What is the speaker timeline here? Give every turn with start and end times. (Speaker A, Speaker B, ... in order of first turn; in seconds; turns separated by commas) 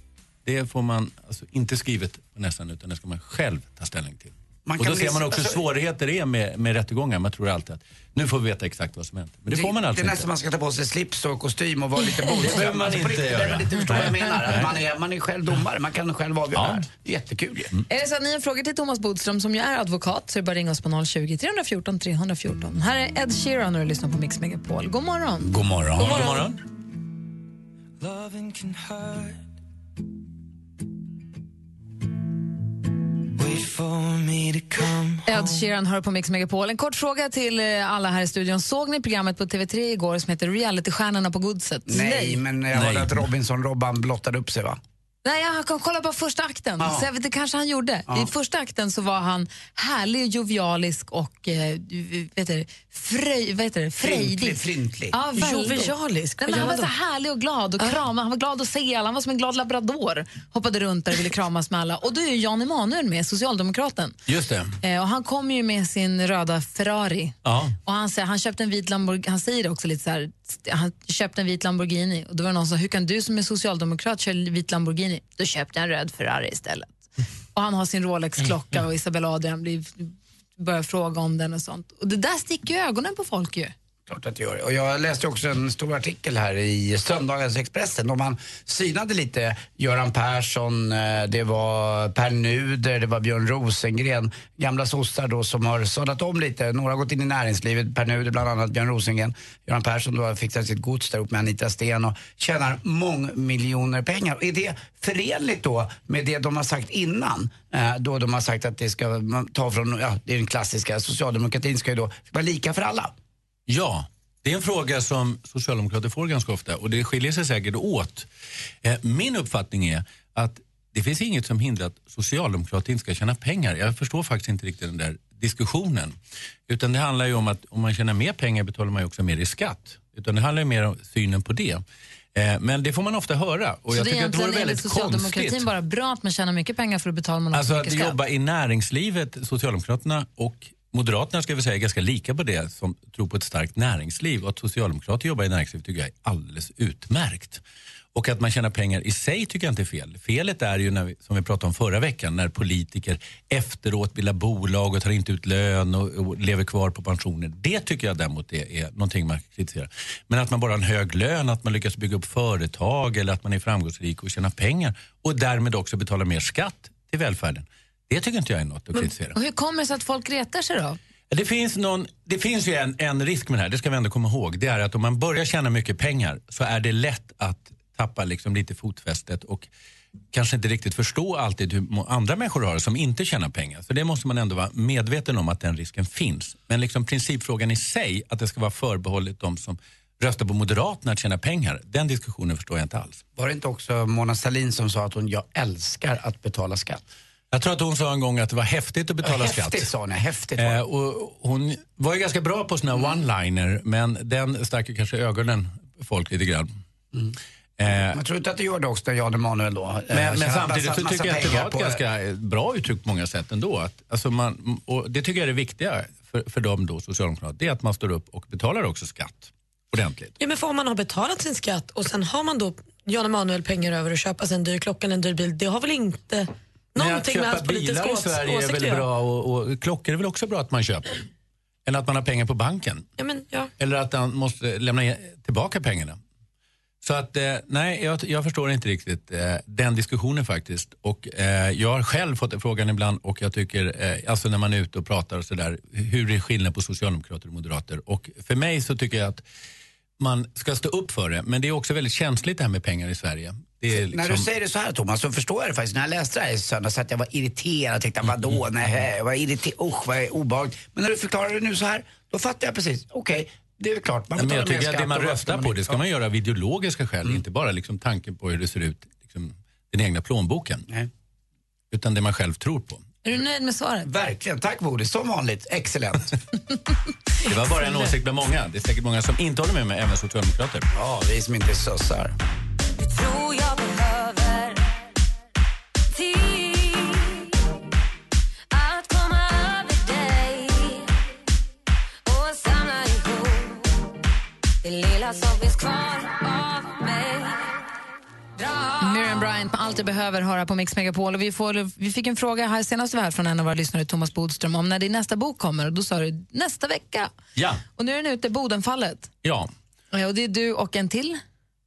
Speaker A: 0.5-10.3, Speaker B: 4.7-5.6, Speaker B: 9.5-17.7, Speaker A: 12.3-14.7, Speaker A: 16.5-16.9, Speaker C: 17.9-25.5, Speaker B: 25.4-26.4, Speaker A: 26.0-26.6, Speaker D: 26.0-26.4, Speaker E: 28.0-29.5, Speaker E: 33.3-35.7, Speaker C: 35.2-42.4, Speaker B: 41.9-44.8, Speaker A: 42.7-43.2, Speaker C: 45.2-64.2, Speaker B: 46.8-47.1, Speaker B: 54.0-55.2, Speaker D: 55.3-56.9, Speaker A: 64.3-64.8, Speaker C: 64.8-76.9, Speaker A: 67.5-67.8, Speaker C: 77.5-83.7, Speaker B: 84.1-113.1, Speaker A: 113.7-118.3, Speaker A: 118.8-126.2, Speaker A: 126.7-131.8, Speaker A: 132.3-135.7, Speaker C: 133.9-138.2, Speaker A: 137.5-147.6, Speaker A: 148.1-169.3, Speaker C: 169.0-171.0, Speaker A: 171.3-179.7, Speaker A: 180.3-193.2, Speaker B: 193.4-197.0, Speaker A: 197.5-199.9, Speaker B: 199.2-200.8, Speaker A: 200.6-206.7, Speaker A: 207.8-208.2, Speaker B: 208.1-212.0, Speaker A: 210.1-220.3, Speaker D: 220.4-229.1, Speaker A: 227.0-231.2, Speaker A: 231.9-233.1, Speaker D: 233.2-233.7, Speaker A: 233.8-236.2, Speaker A: 237.0-249.4, Speaker A: 250.2-254.5, Speaker B: 253.9-266.0, Speaker A: 264.4-270.9, Speaker A: 271.9-273.1, Speaker C: 273.2-274.1, Speaker B: 274.1-276.4, Speaker A: 277.4-280.9, Speaker B: 280.9-282.3, Speaker F: 283.1-284.7, Speaker F: 286.2-287.3, Speaker F: 288.7-291.1, Speaker F: 292.3-293.8, Speaker F: 294.8-297.6, Speaker C: 299.0-307.3, Speaker A: 307.6-307.8, Speaker C: 307.9-309.3, Speaker A: 309.4-309.7, Speaker C: 310.1-311.4